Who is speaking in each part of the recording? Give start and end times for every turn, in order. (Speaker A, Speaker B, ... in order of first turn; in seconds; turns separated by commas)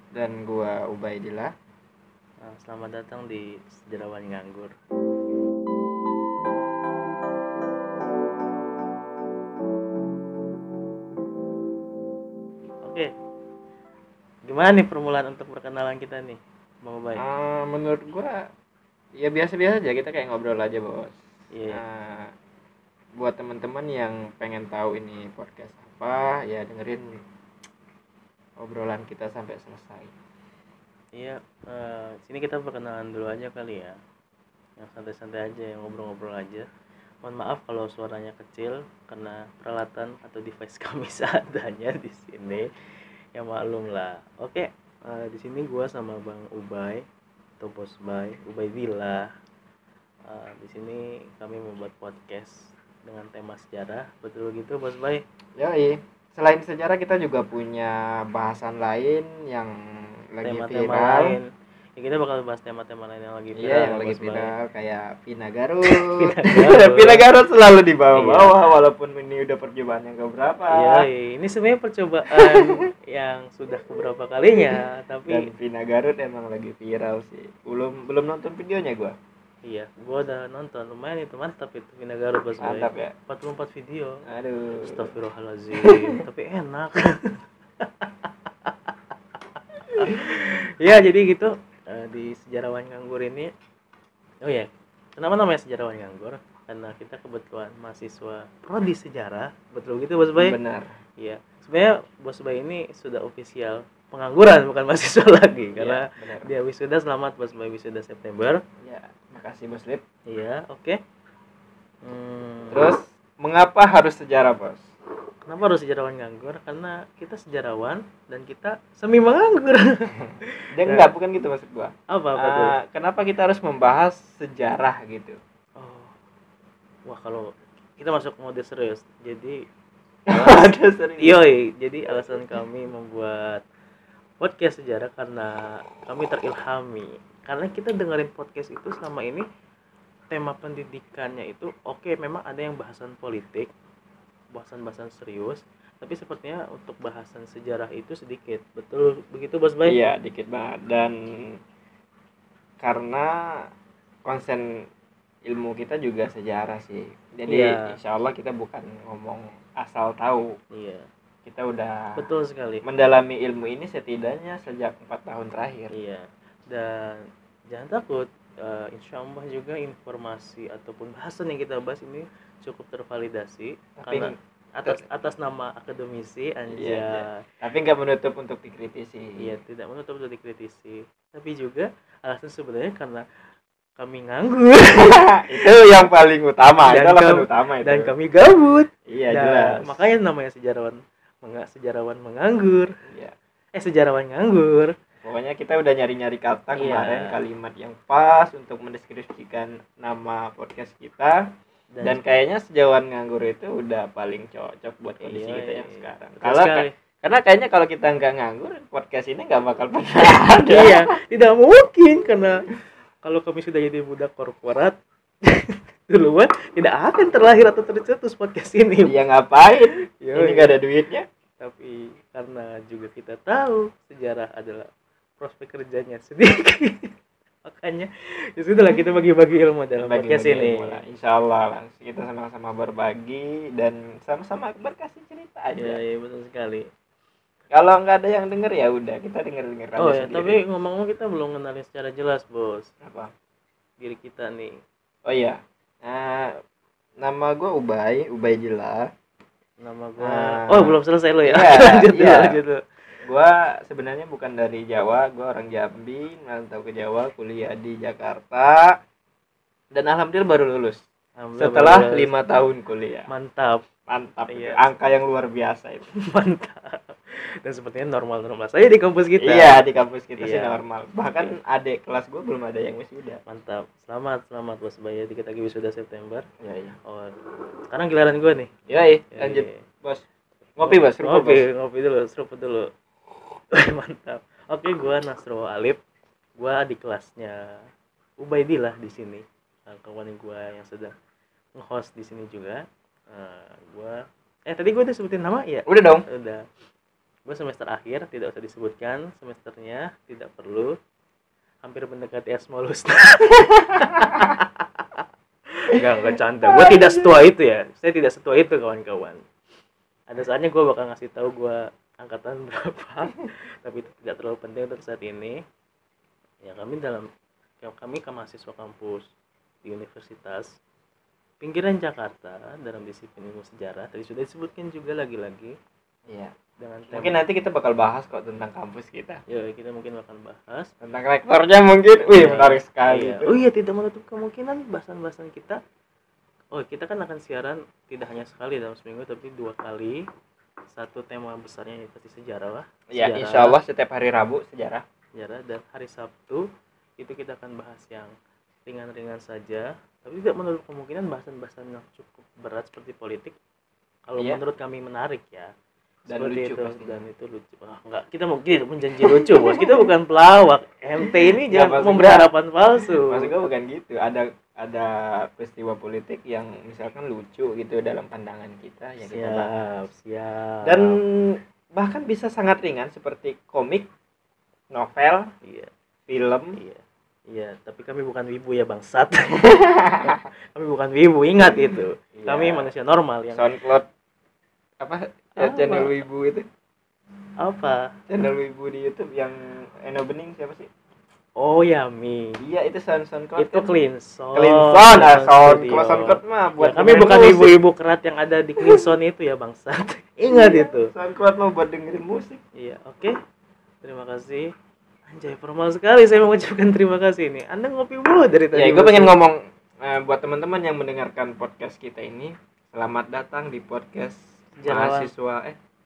Speaker A: 0.1-1.5, Speaker B: 2.5-4.7, Speaker B: 12.8-13.1, Speaker B: 14.5-17.2, Speaker A: 17.2-18.4, Speaker A: 19.2-21.2, Speaker B: 21.5-21.8, Speaker A: 21.7-22.3, Speaker A: 23.2-27.0, Speaker A: 28.6-30.1, Speaker B: 31.1-34.0, Speaker B: 34.8-36.6, Speaker B: 37.2-42.7, Speaker B: 43.3-47.0, Speaker B: 47.6-49.3, Speaker B: 50.3-55.2, Speaker A: 55.6-59.7, Speaker A: 60.3-61.4, Speaker B: 60.4-61.4, Speaker B: 62.0-64.5, Speaker A: 63.6-71.0, Speaker B: 65.9-67.2, Speaker B: 68.1-68.5, Speaker B: 70.7-75.5, Speaker A: 72.3-72.8, Speaker A: 75.3-79.1, Speaker B: 79.7-84.2, Speaker A: 82.6-83.1, Speaker A: 84.2-85.1, Speaker B: 84.8-88.9, Speaker A: 85.8-86.2, Speaker B: 90.0-93.5, Speaker B: 94.4-100.6, Speaker A: 100.4-100.9, Speaker B: 101.2-108.6, Speaker A: 105.8-106.5, Speaker A: 108.8-110.0, Speaker B: 110.3-111.0, Speaker B: 112.0-112.8, Speaker A: 112.7-114.8, Speaker B: 115.5-121.1, Speaker A: 120.7-125.4, Speaker B: 122.1-122.7, Speaker B: 125.8-126.1, Speaker B: 127.1-129.6, Speaker A: 130.3-131.4, Speaker B: 130.3-133.6, Speaker B: 134.4-139.4, Speaker B: 140.3-143.7, Speaker B: 144.5-150.0, Speaker A: 149.8-151.6, Speaker A: 152.8-153.3, Speaker A: 154.2-154.7, Speaker A: 155.4-160.5, Speaker B: 157.5-157.9, Speaker B: 160.7-161.1, Speaker A: 161.4-162.2, Speaker B: 162.2-162.8, Speaker A: 162.8-165.9, Speaker B: 165.9-177.4, Speaker A: 174.0-175.0, Speaker A: 176.7-179.4, Speaker B: 179.4-183.2, Speaker B: 184.0-185.7, Speaker A: 184.9-188.1, Speaker B: 186.8-192.9, Speaker A: 189.1-190.1, Speaker A: 193.1-193.3, Speaker B: 193.8-194.9, Speaker A: 195.2-201.4, Speaker B: 196.8-197.3, Speaker B: 201.9-202.2, Speaker A: 202.0-211.1, Speaker B: 205.2-206.9, Speaker B: 210.7-212.7, Speaker B: 213.2-219.2, Speaker A: 219.0-221.2, Speaker B: 220.2-220.7, Speaker B: 221.6-224.9, Speaker B: 225.4-227.1, Speaker B: 227.7-231.0, Speaker A: 230.0-236.0, Speaker B: 235.8-236.9, Speaker A: 237.7-240.6, Speaker B: 240.0-242.9, Speaker A: 243.0-243.3, Speaker B: 244.0-244.8, Speaker A: 245.2-246.5, Speaker A: 247.2-249.1, Speaker B: 249.8-252.8, Speaker A: 250.2-252.6, Speaker A: 253.2-258.8, Speaker A: 259.9-261.0, Speaker B: 261.4-262.3, Speaker A: 261.6-263.3, Speaker B: 263.3-263.8, Speaker A: 264.1-266.1, Speaker B: 264.5-264.8, Speaker B: 266.3-269.8, Speaker A: 269.4-273.4, Speaker B: 270.4-270.8, Speaker B: 273.5-276.4, Speaker A: 276.6-276.9, Speaker B: 277.1-277.3, Speaker B: 277.9-278.7, Speaker A: 278.9-280.2, Speaker B: 279.3-279.8, Speaker A: 280.8-281.6, Speaker B: 280.8-282.9, Speaker B: 283.7-286.0, Speaker B: 286.6-287.6, Speaker B: 288.4-291.1, Speaker B: 291.8-296.6, Speaker A: 295.9-296.2, Speaker B: 297.5-300.9, Speaker B: 301.8-305.2, Speaker B: 305.8-309.4, Speaker A: 306.7-307.2, Speaker B: 310.3-315.6, Speaker B: 316.6-317.3, Speaker B: 317.8-319.3, Speaker B: 319.8-320.7, Speaker B: 321.6-325.8, Speaker B: 326.8-327.4, Speaker A: 327.1-329.4, Speaker B: 329.5-330.9, Speaker A: 331.0-333.6, Speaker B: 332.3-335.8, Speaker B: 336.7-340.2, Speaker B: 340.9-343.8, Speaker A: 343.1-345.0, Speaker B: 345.4-346.6, Speaker B: 347.2-348.3, Speaker B: 348.9-353.6, Speaker B: 354.3-355.7, Speaker A: 356.3-357.2, Speaker B: 356.3-363.5, Speaker A: 359.1-360.1, Speaker A: 361.2-362.5, Speaker A: 363.2-369.7, Speaker B: 369.2-371.1, Speaker A: 370.8-374.1, Speaker A: 374.9-375.5, Speaker B: 375.6-375.9, Speaker A: 376.3-376.8, Speaker B: 376.8-383.6, Speaker A: 379.7-380.3, Speaker A: 381.6-382.9, Speaker A: 383.5-384.1, Speaker A: 385.0-386.6, Speaker B: 385.6-386.2, Speaker B: 387.6-388.1, Speaker A: 388.3-390.9, Speaker B: 391.6-392.6, Speaker A: 392.6-393.9, Speaker B: 393.6-401.1, Speaker A: 394.5-397.8, Speaker A: 400.5-402.6, Speaker B: 402.8-403.3, Speaker B: 404.0-404.7, Speaker B: 405.3-409.3, Speaker A: 408.7-415.8, Speaker B: 414.8-415.3